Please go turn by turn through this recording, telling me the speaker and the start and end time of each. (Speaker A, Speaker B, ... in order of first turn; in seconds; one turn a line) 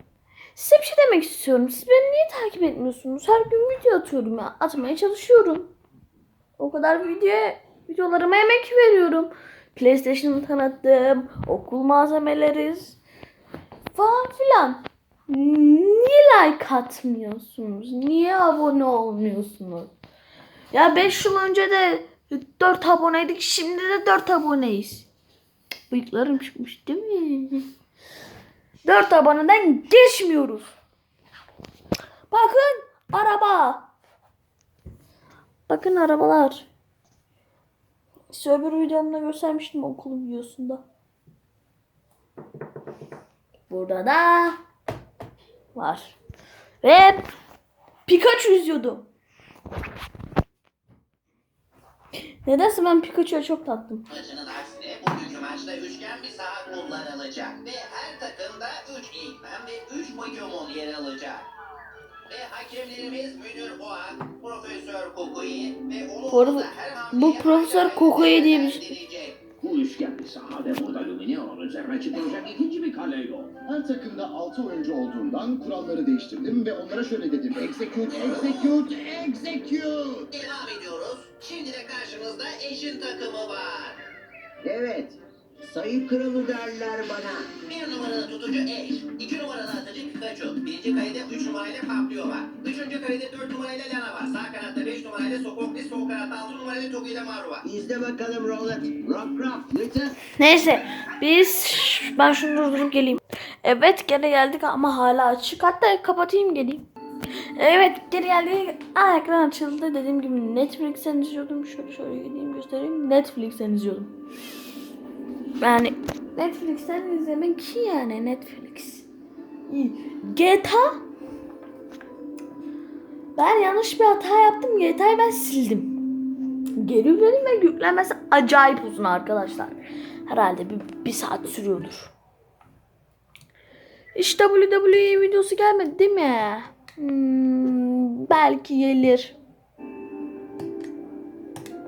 Speaker A: 0.5-5.7
Speaker A: 6.6-13.0
Speaker A: 13.9-19.9
Speaker A: 20.7-25.1
Speaker A: 25.9-27.6
Speaker A: 28.8-30.7
Speaker A: 32.3-33.9
Speaker A: 35.7-36.7
Speaker A: 38.3-40.8
Speaker A: 43.7-44.6
Speaker A: 45.7-46.1
Speaker A: 46.8-47.2
Speaker A: 48.0-49.0
Speaker A: 52.4-54.0
Speaker B: 54.1-61.5
Speaker B: 62.3-69.5
Speaker A: 66.3-68.9
Speaker C: 69.7-73.2
Speaker D: 73.5-80.3
Speaker B: 80.3-84.0
Speaker E: 84.6-87.6
Speaker B: 87.6-97.7
Speaker E: 97.6-100.2
Speaker A: 100.4-106.8
Speaker A: 107.5-114.1
Speaker A: 115.6-119.0
Speaker A: 119.7-121.0
Speaker A: 123.3-126.0
Speaker A: 126.8-132.1
Speaker A: 134.1-139.3